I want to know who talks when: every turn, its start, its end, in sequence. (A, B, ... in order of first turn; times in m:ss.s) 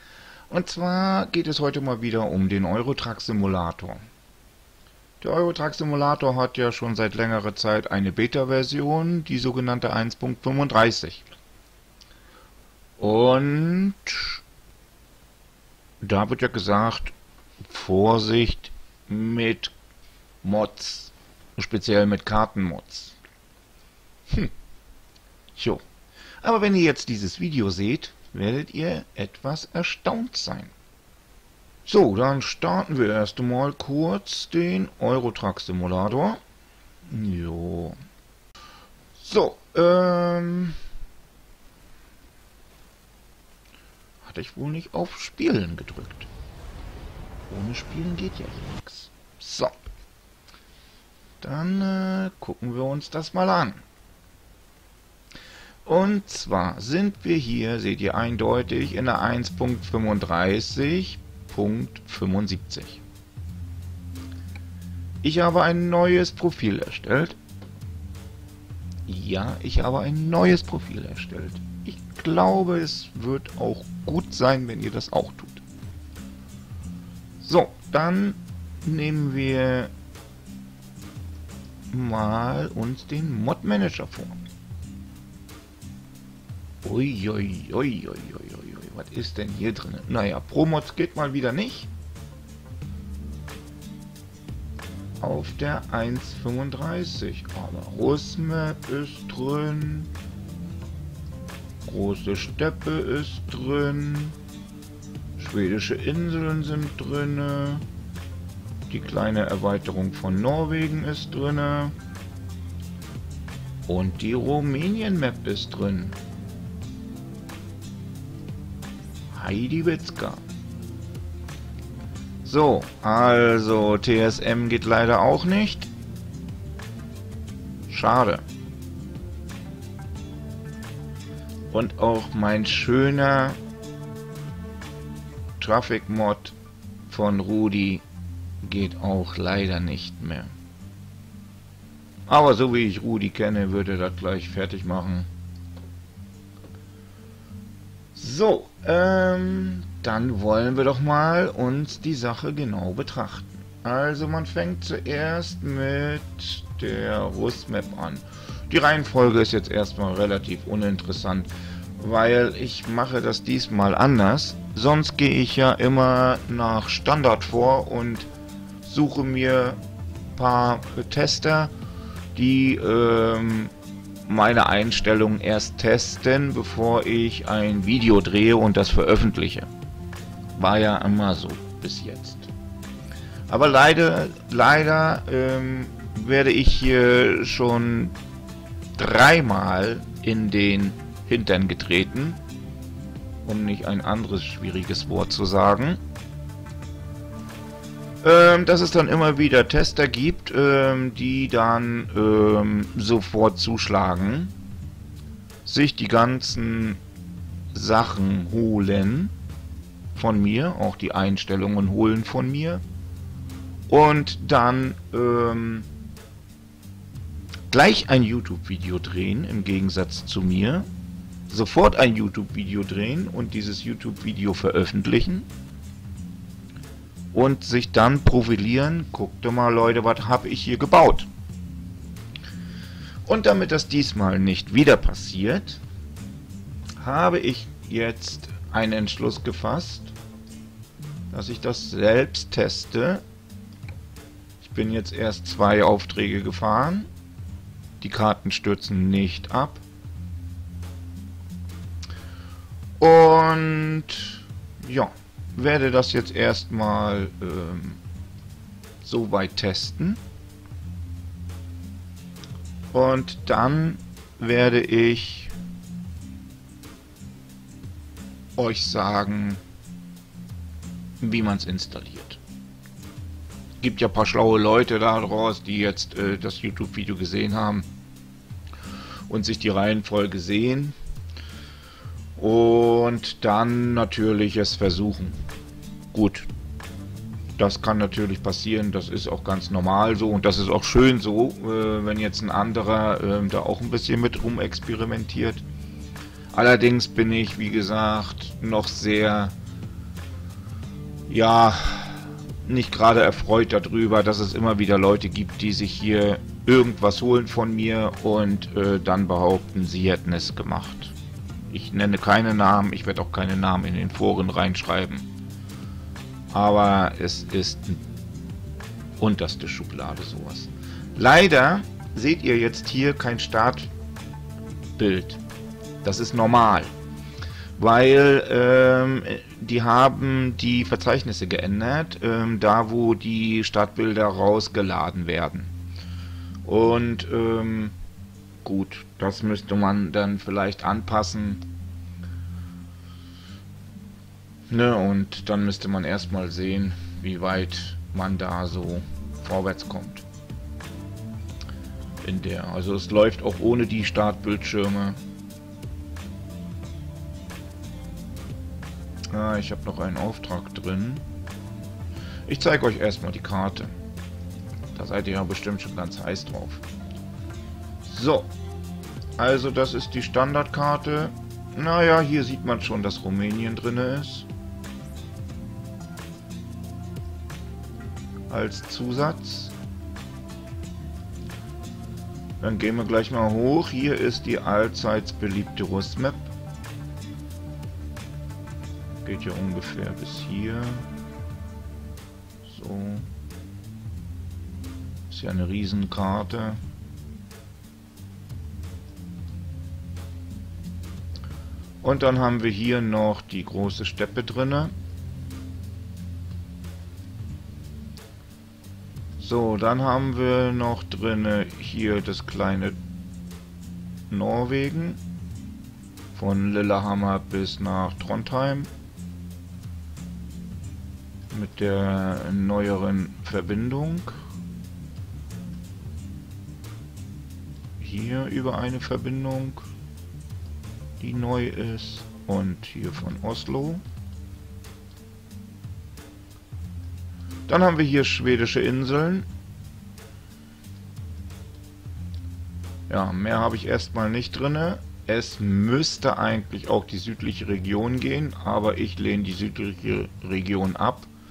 0:00.5-0:04.0 A
0:05.2-0:11.3 A
0:13.0-0:14.4 A
0:16.0-0:19.7 A
0:20.4-0:23.2 A
0:25.6-0:25.8 A
0:26.4-0:30.7 A
0:31.9-0:36.4 A
0:37.1-0:38.0 A
0:39.2-0:40.8 A
0:44.2-0:46.3 A
0:47.5-0:49.8 A
0:51.4-0:53.8 A
0:55.8-1:03.0 A
1:05.2-1:07.4 A
1:09.1-1:15.6 A
1:17.4-1:19.9 A
1:21.9-1:24.4 A
1:26.8-1:31.9 A
1:35.2-1:40.1 A
1:41.9-1:44.4 A
1:45.4-1:47.8 A
1:48.9-1:52.0 A
1:53.9-1:56.2 A
1:59.3-2:00.4 A
2:02.4-2:05.9 A
2:07.9-2:08.4 A
2:11.7-2:13.6 A
2:15.6-2:16.6 A
2:17.1-2:18.0 A
2:18.6-2:20.5 A
2:22.3-2:25.3 A
2:28.2-2:48.3 A
2:48.8-2:49.8 A
2:50.4-2:51.7 A
2:52.4-2:53.7 A
2:54.2-2:59.7 A
3:00.6-3:02.5 A
3:03.5-3:08.2 A
3:09.0-3:12.4 A
3:13.4-3:16.0 A
3:18.2-3:24.5 A
3:25.6-3:27.0 A
3:27.7-3:29.3 A
3:30.2-3:32.8 A
3:33.9-3:35.9 A
3:37.7-3:40.9 A
3:41.5-3:45.5 A
3:47.3-3:51.3 A
3:53.3-3:55.8 A
3:57.0-4:00.1 A
4:01.3-4:03.2 A
4:04.6-4:07.1 A
4:08.0-4:09.8 A
4:13.0-4:18.0 A
4:19.0-4:20.2 A
4:22.9-4:25.5 A
4:28.6-4:29.6 A
4:31.2-4:32.4 A
4:33.8-4:37.9 A
4:39.3-4:41.0 A
4:42.4-4:45.4 A
4:46.1-4:46.5 A
4:47.6-4:55.6 A
4:56.5-4:59.6 A
5:01.3-5:11.2 A
5:11.7-5:15.3 A
5:16.5-5:18.0 A
5:19.2-5:23.9 A
5:25.0-5:25.4 A
5:26.0-5:26.9 A
5:27.8-5:35.7 A
5:36.6-5:38.0 A
5:38.6-5:41.6 A
5:44.7-5:50.2 A
5:52.2-5:55.2 A
5:59.3-6:01.2 A
6:02.5-6:03.9 A
6:04.9-6:06.8 A
6:08.0-6:08.5 A
6:09.4-6:14.5 A
6:18.5-6:19.8 A
6:22.6-6:26.5 A
6:29.2-6:31.1 A
6:32.6-6:33.3 A
6:35.3-6:36.8 A
6:42.0-6:44.9 A
6:49.4-6:53.0 A
6:54.3-6:55.2 A
6:56.3-6:58.9 A
7:01.5-7:04.4 A
7:08.0-7:09.9 A
7:11.2-7:14.0 A
7:17.7-7:19.5 A
7:23.1-7:31.3 A